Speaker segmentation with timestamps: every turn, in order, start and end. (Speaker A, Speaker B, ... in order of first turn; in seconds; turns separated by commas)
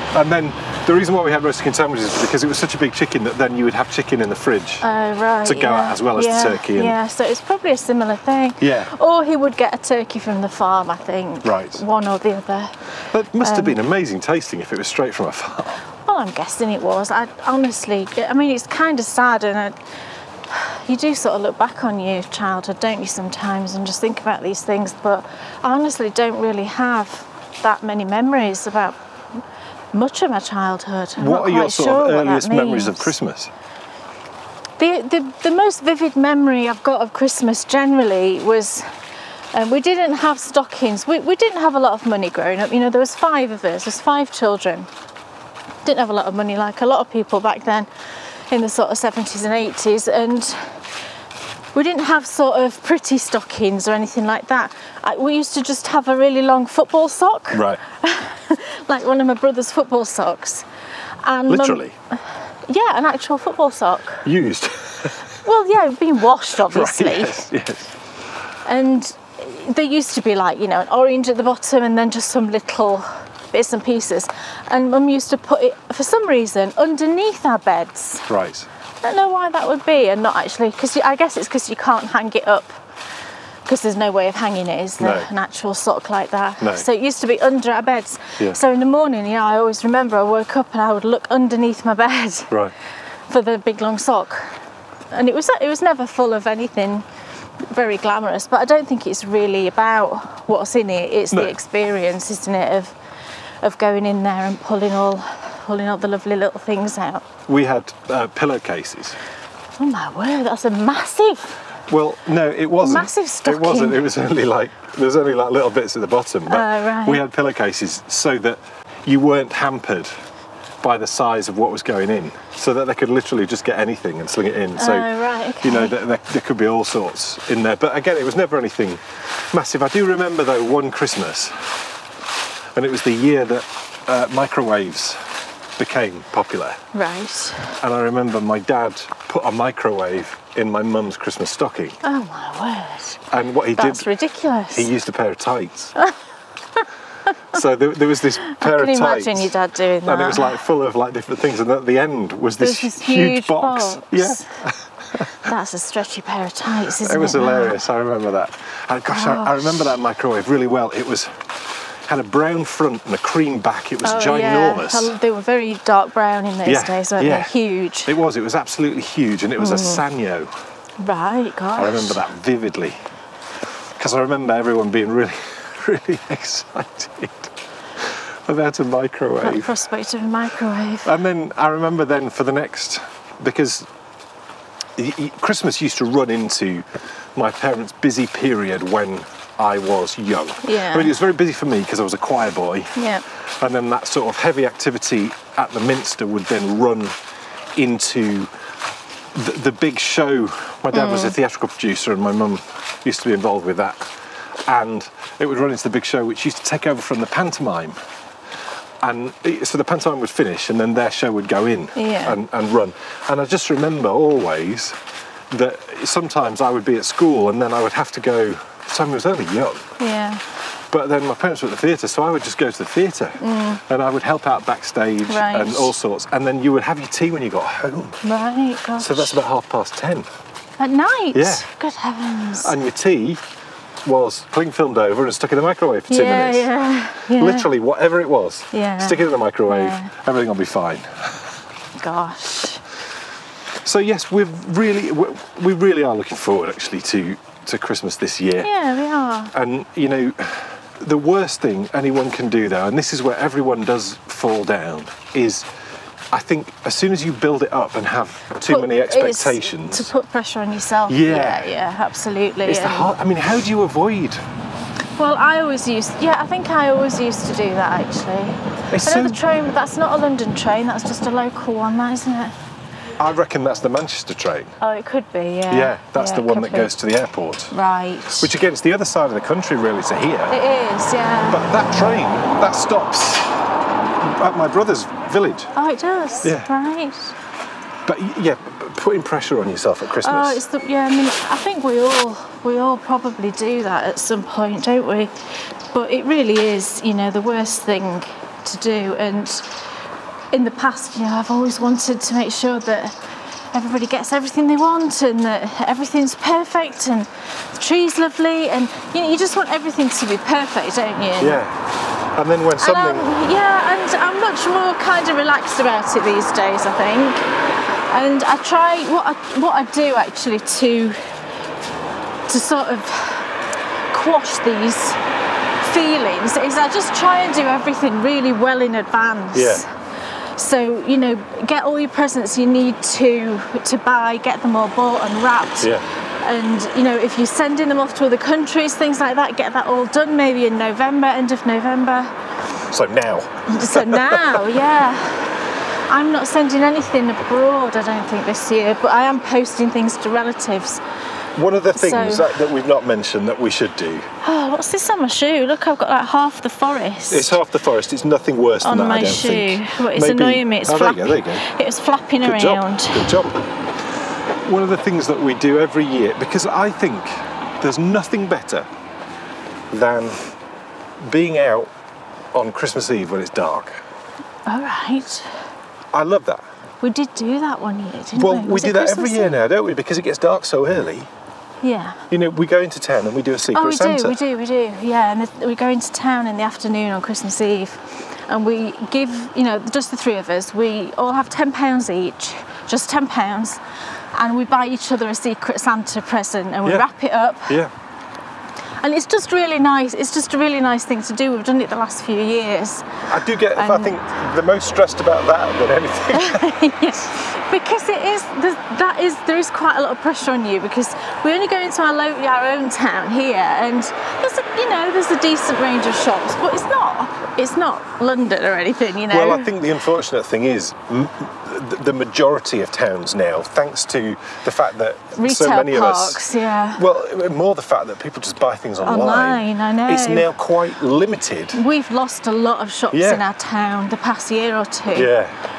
Speaker A: 0.1-4.8, Speaker B: 4.8-12.8, Speaker A: 5.4-7.0, Speaker A: 8.6-8.9, Speaker A: 11.4-11.8, Speaker A: 13.1-15.8, Speaker B: 13.4-13.7, Speaker B: 16.0-19.8, Speaker B: 20.5-29.0, Speaker B: 29.9-33.1, Speaker A: 31.2-33.5, Speaker B: 34.8-38.9, Speaker B: 39.5-44.9, Speaker B: 45.8-47.9, Speaker B: 48.5-50.8, Speaker B: 51.7-60.6, Speaker A: 57.5-57.8, Speaker B: 61.2-61.8, Speaker A: 61.5-61.9, Speaker B: 62.6-64.2, Speaker A: 64.2-65.2, Speaker B: 65.4-67.5, Speaker A: 66.7-67.9, Speaker B: 68.7-78.3, Speaker A: 78.3-78.7, Speaker B: 79.0-82.7, Speaker B: 83.7-92.5, Speaker A: 85.0-85.3, Speaker A: 86.6-86.8, Speaker B: 93.3-94.5, Speaker B: 95.1-97.0, Speaker B: 97.7-102.9, Speaker B: 103.6-107.2, Speaker A: 107.5-109.2, Speaker B: 109.8-111.6, Speaker A: 111.9-120.1, Speaker B: 112.8-114.0, Speaker B: 116.5-117.2, Speaker A: 120.8-125.1, Speaker B: 124.8-125.9, Speaker A: 125.6-131.7, Speaker A: 132.7-135.2, Speaker A: 135.8-136.8, Speaker B: 136.9-137.7, Speaker A: 137.8-142.0, Speaker B: 142.0-143.2, Speaker A: 143.3-144.1, Speaker B: 143.8-144.9, Speaker A: 144.7-145.9, Speaker A: 147.5-149.5, Speaker B: 148.4-150.6, Speaker A: 150.0-155.4, Speaker B: 152.6-154.6, Speaker B: 155.3-157.8, Speaker A: 156.9-165.1, Speaker B: 159.1-159.9, Speaker B: 164.0-168.1, Speaker A: 166.7-167.5, Speaker A: 168.0-170.5, Speaker B: 169.6-170.0, Speaker B: 171.0-172.2, Speaker A: 171.8-173.0, Speaker A: 174.0-179.7, Speaker B: 179.4-181.1, Speaker A: 181.0-183.9, Speaker A: 184.9-192.9, Speaker B: 190.6-191.1, Speaker B: 192.9-193.2, Speaker A: 193.6-197.2, Speaker A: 197.8-198.5, Speaker A: 199.3-204.1, Speaker B: 200.9-201.3, Speaker A: 204.7-207.9, Speaker A: 209.0-215.0, Speaker B: 211.9-212.4, Speaker A: 215.5-219.9, Speaker B: 220.0-220.4, Speaker A: 220.9-228.2, Speaker B: 223.4-223.8, Speaker B: 225.3-225.9, Speaker B: 228.2-229.4, Speaker A: 229.0-230.3, Speaker B: 230.8-232.7, Speaker A: 231.3-231.7, Speaker A: 232.6-233.4, Speaker A: 234.0-236.7, Speaker B: 236.1-237.7, Speaker A: 237.3-241.3, Speaker B: 238.7-240.1, Speaker B: 242.0-242.8, Speaker A: 243.8-248.7, Speaker B: 248.6-249.5, Speaker A: 249.5-255.7, Speaker A: 256.3-260.1, Speaker B: 258.7-263.1, Speaker A: 261.1-261.6, Speaker A: 262.6-264.4, Speaker B: 265.2-272.5, Speaker A: 268.9-269.4, Speaker A: 273.2-274.8, Speaker B: 274.8-276.9, Speaker A: 275.7-277.7, Speaker B: 277.7-278.5, Speaker A: 278.4-280.6, Speaker B: 280.5-281.6, Speaker A: 281.4-283.5, Speaker A: 284.2-285.7, Speaker B: 285.7-287.3, Speaker A: 286.4-286.7, Speaker A: 288.1-290.6, Speaker B: 290.2-295.3, Speaker B: 295.9-299.7, Speaker B: 300.5-303.2, Speaker B: 303.7-311.6, Speaker A: 311.4-311.8, Speaker A: 312.3-313.3, Speaker B: 312.8-317.5, Speaker B: 318.1-321.3, Speaker B: 322.5-323.5, Speaker B: 324.1-325.2, Speaker B: 325.8-329.9, Speaker A: 329.5-329.8, Speaker B: 330.5-342.3, Speaker A: 342.8-344.8, Speaker B: 343.7-351.0, Speaker A: 351.5-354.3, Speaker B: 351.9-352.4, Speaker B: 354.4-357.5, Speaker A: 357.3-361.6, Speaker B: 358.8-363.3, Speaker A: 362.4-363.6, Speaker A: 364.6-368.9, Speaker A: 369.9-370.4, Speaker A: 371.2-371.9, Speaker A: 372.5-374.0, Speaker B: 374.7-375.5, Speaker A: 376.1-376.6, Speaker B: 377.0-379.6, Speaker A: 378.3-381.3, Speaker B: 381.8-382.2, Speaker A: 382.3-384.4, Speaker B: 383.7-393.8, Speaker B: 394.3-397.8, Speaker B: 399.0-403.1, Speaker A: 403.3-406.7, Speaker B: 403.7-404.1, Speaker B: 406.3-419.7, Speaker A: 419.3-426.4, Speaker B: 425.4-427.0, Speaker A: 426.9-431.8, Speaker B: 429.0-430.5, Speaker B: 431.7-435.3, Speaker A: 433.1-433.4, Speaker A: 435.1-435.5